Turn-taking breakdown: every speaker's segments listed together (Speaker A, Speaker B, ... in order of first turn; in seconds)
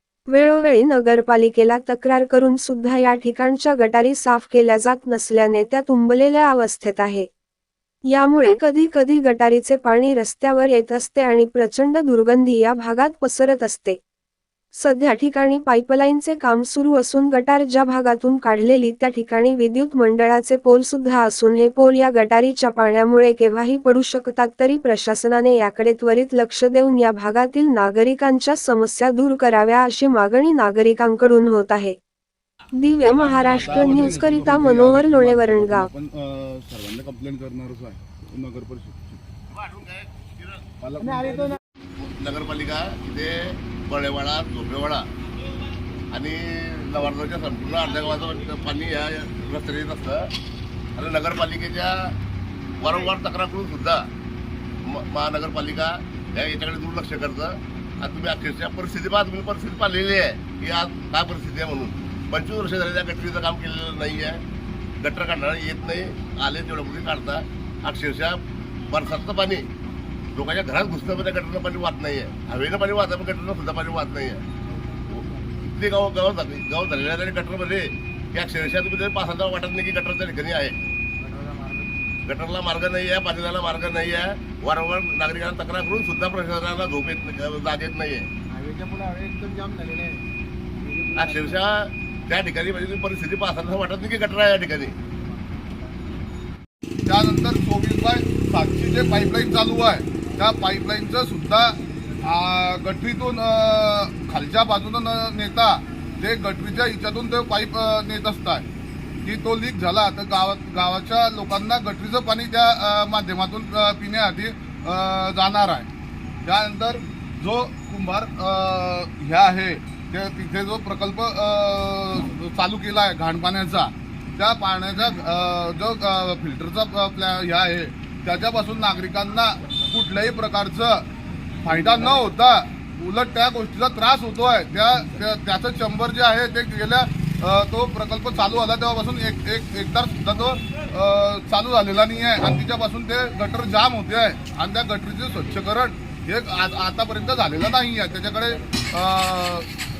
Speaker A: 0.3-7.3, 8.1-14.0, 14.7-32.0, 32.8-35.9
Speaker B: 33.2-39.2, 40.8-41.6, 97.0-108.6, 109.2-115.9, 116.4-131.1, 131.6-149.7
Speaker C: 39.5-40.6, 42.0-45.0, 46.1-50.3, 51.0-52.1, 52.8-54.0, 54.8-64.4, 65.0-69.6, 70.3-74.4, 75.7-80.8, 82.3-88.2, 91.1-94.9
Speaker D: 81.2-81.9, 88.5-90.2, 90.8-91.5